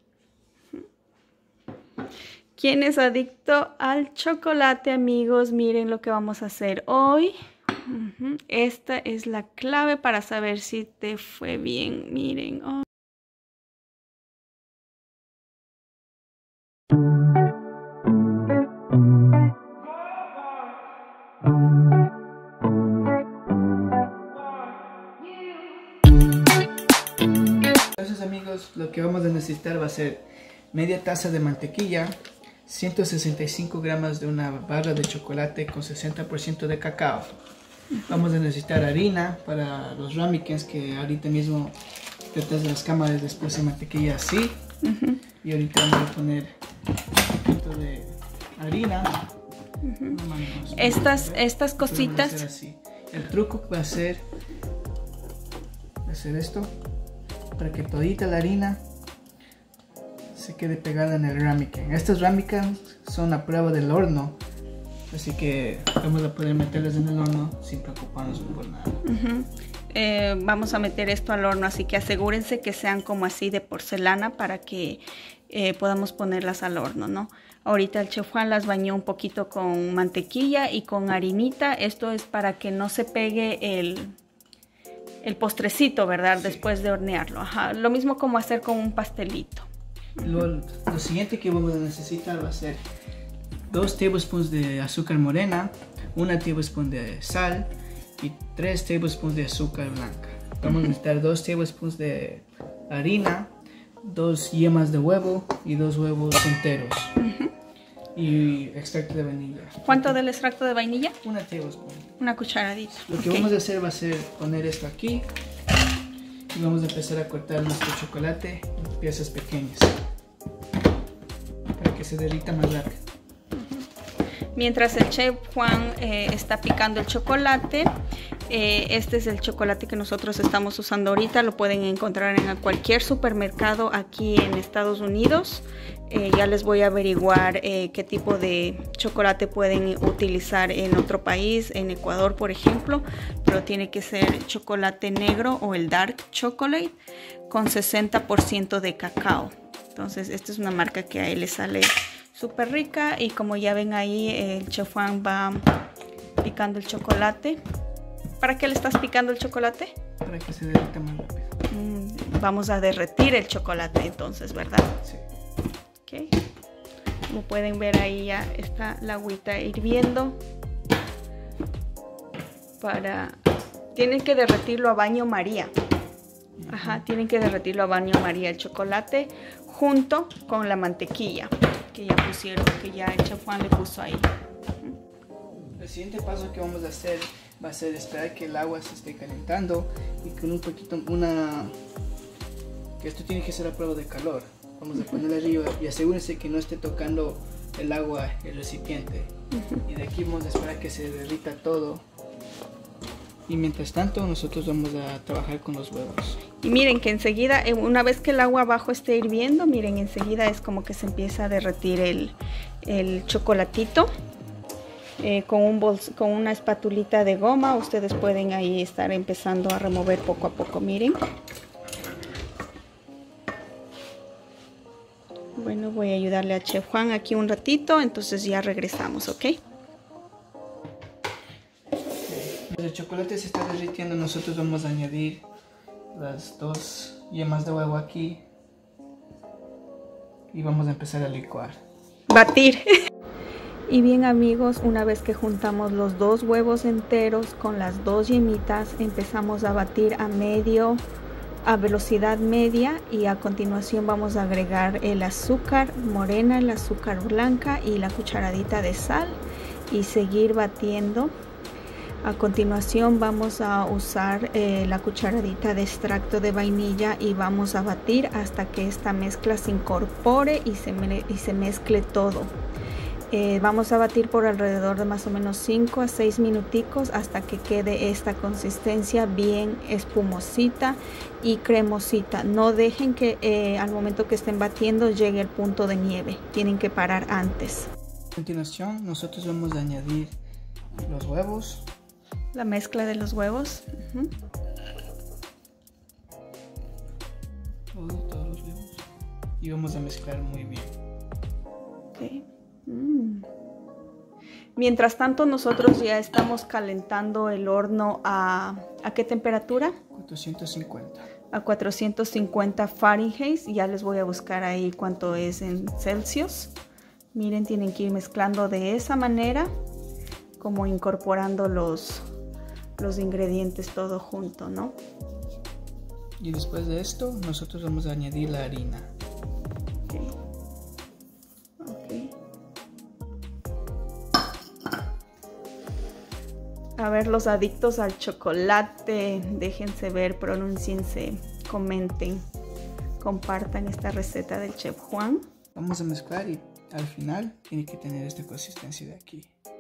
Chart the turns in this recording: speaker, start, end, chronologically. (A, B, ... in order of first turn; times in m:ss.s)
0:02.6-0:12.8 A
0:28.0-0:37.3 B
0:38.1-0:41.8 B
0:42.3-0:44.6 B
0:44.8-0:45.2 A
0:45.4-0:46.6 B
0:47.4-0:49.3 B
0:49.8-0:50.2 A
0:50.1-0:54.2 B
0:50.7-0:52.4 A
0:56.0-0:56.8 B
0:57.6-0:58.8 B
1:00.3-1:04.4 B
1:05.1-1:09.0 B
1:09.0-1:24.2 A
1:25.2-1:29.7 A
1:26.4-1:26.6 B
1:30.2-1:32.8 B
1:33.7-1:47.2 B
1:40.7-1:40.9 A
1:47.2-1:47.5 A
1:48.1-1:50.2 B
1:49.8-1:51.2 A
1:51.2-1:52.1 B
1:52.2-1:53.5 A
1:53.1-1:55.3 B
1:56.5-2:00.0 B
2:01.8-2:03.0 B
2:03.5-2:03.9 A
2:04.6-2:08.0 A
2:08.5-2:27.0 A
2:27.5-2:35.6 A
2:36.4-2:37.6 A
2:38.4-2:40.0 A
2:40.2-2:41.6 B
2:41.7-2:45.0 A
2:46.1-2:46.3 A
2:47.3-2:50.4 A
2:52.8-2:53.4 A
2:54.0-2:55.7 A
2:56.6-2:57.0 B
2:56.7-3:04.3 A
3:05.8-3:11.8 B
3:13.0-3:19.3 B
3:19.6-3:19.8 A
3:19.8-3:22.0 B
3:23.5-3:26.4 B
3:26.6-3:34.1 A
3:35.2-3:41.2 A
3:45.6-3:49.6 A
3:52.3-3:55.5 B
3:56.1-3:58.4 B
4:00.5-4:01.8 B
4:02.3-4:02.9 A
4:03.9-4:11.0 A
4:11.6-4:21.3 A
4:22.2-4:32.5 A
4:33.3-4:47.9 A
4:48.4-4:50.3 B
4:51.1-4:51.9 B
4:52.5-4:54.3 A
4:57.9-4:59.0 B
4:59.6-5:00.9 B
5:02.1-5:03.5 A
5:04.8-5:10.0 A
5:10.1-5:11.2 B
5:11.5-5:16.7 A
5:17.3-5:19.7 A
5:20.6-5:22.2 A
5:23.0-5:25.0 A
5:26.4-5:29.1 B
5:30.1-5:30.3 A
5:31.8-5:32.3 A
5:37.0-5:42.4 A
5:43.2-5:45.4 A
5:45.8-5:49.5 B